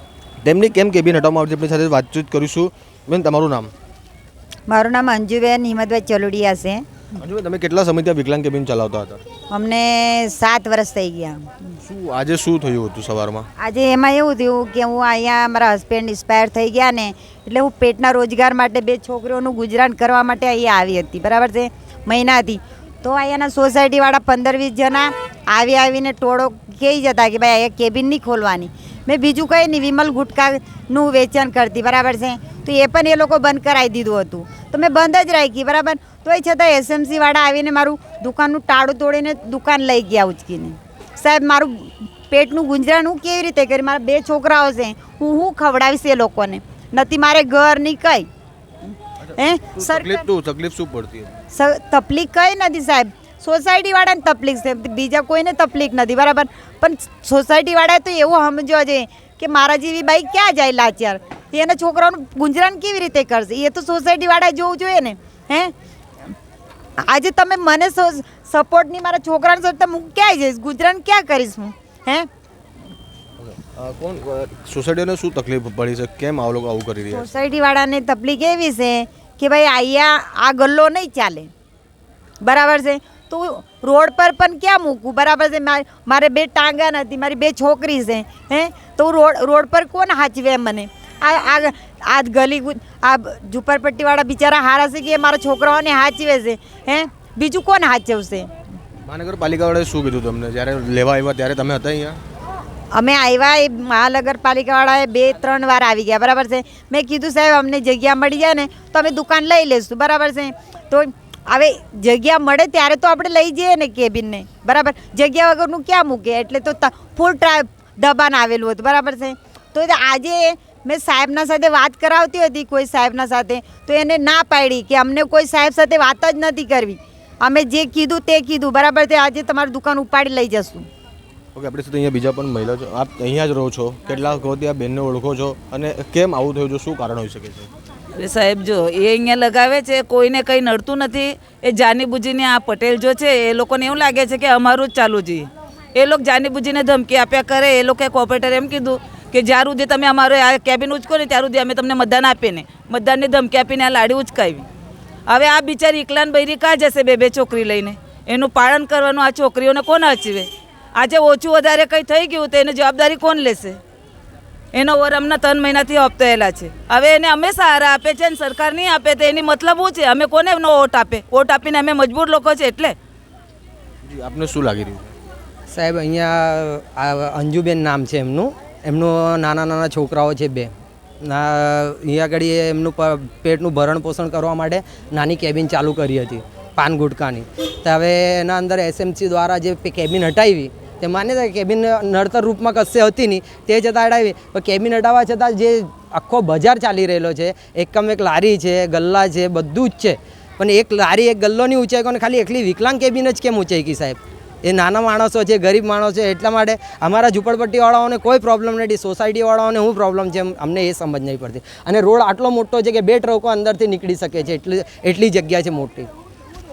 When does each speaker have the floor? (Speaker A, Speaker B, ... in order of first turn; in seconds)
Speaker A: 0.4-3.7, 7.2-9.2, 11.8-13.5, 49.7-51.4, 73.6-77.3, 99.0-102.2, 131.5-137.7, 174.0-175.1
Speaker B: 4.7-6.9, 9.5-11.7, 13.6-48.3, 49.3-50.2, 51.5-65.7, 67.0-72.3, 77.1-81.5, 82.4-98.5, 102.9-130.9
Speaker C: 138.2-154.7, 155.3-163.8, 164.7-172.9
Speaker D: 175.7-216.1